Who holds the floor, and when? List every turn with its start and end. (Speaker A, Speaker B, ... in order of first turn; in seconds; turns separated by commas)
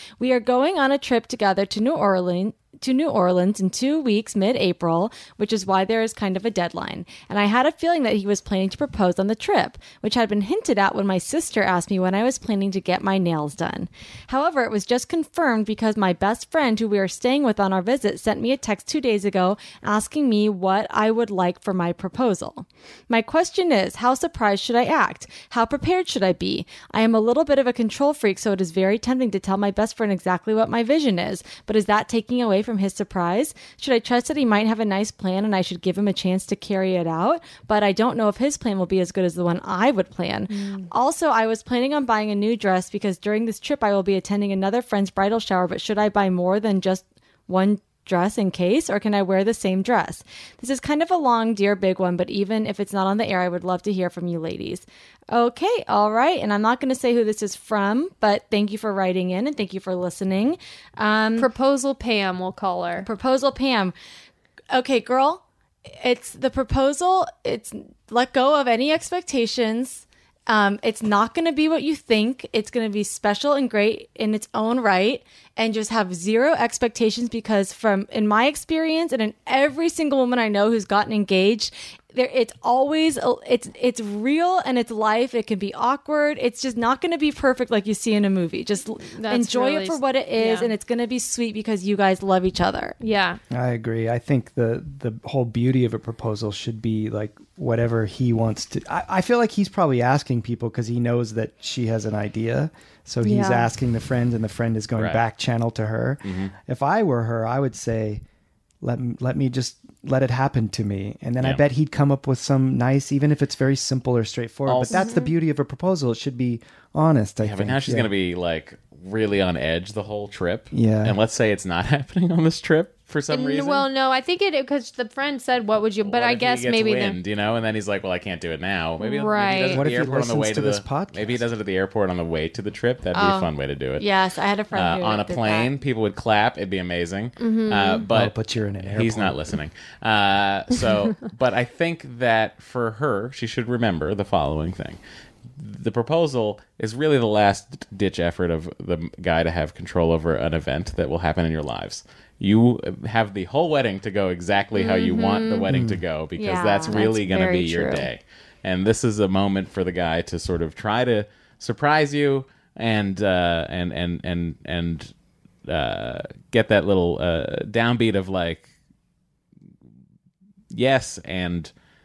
Speaker A: 0.2-61.5, Speaker B: 40.5-40.9, Speaker B: 61.4-63.1, Speaker A: 63.0-63.9, Speaker A: 64.7-65.4, Speaker A: 66.0-93.0, Speaker B: 89.1-90.7, Speaker B: 93.0-93.4, Speaker C: 93.5-108.2, Speaker B: 103.2-103.7, Speaker D: 105.0-105.2, Speaker D: 106.2-106.5, Speaker C: 108.8-118.1, Speaker D: 114.7-115.1, Speaker B: 114.9-115.3, Speaker D: 117.4-123.9, Speaker C: 120.7-121.2, Speaker B: 123.3-127.2, Speaker D: 126.0-134.1, Speaker B: 129.0-129.8, Speaker C: 129.7-131.4, Speaker A: 133.1-135.7, Speaker D: 134.7-145.0, Speaker B: 137.4-138.1, Speaker C: 138.1-139.4, Speaker D: 145.5-165.1, Speaker B: 154.7-155.7, Speaker C: 155.7-156.0, Speaker A: 156.4-157.9, Speaker B: 156.9-158.1, Speaker D: 165.7-168.7, Speaker D: 170.7-171.7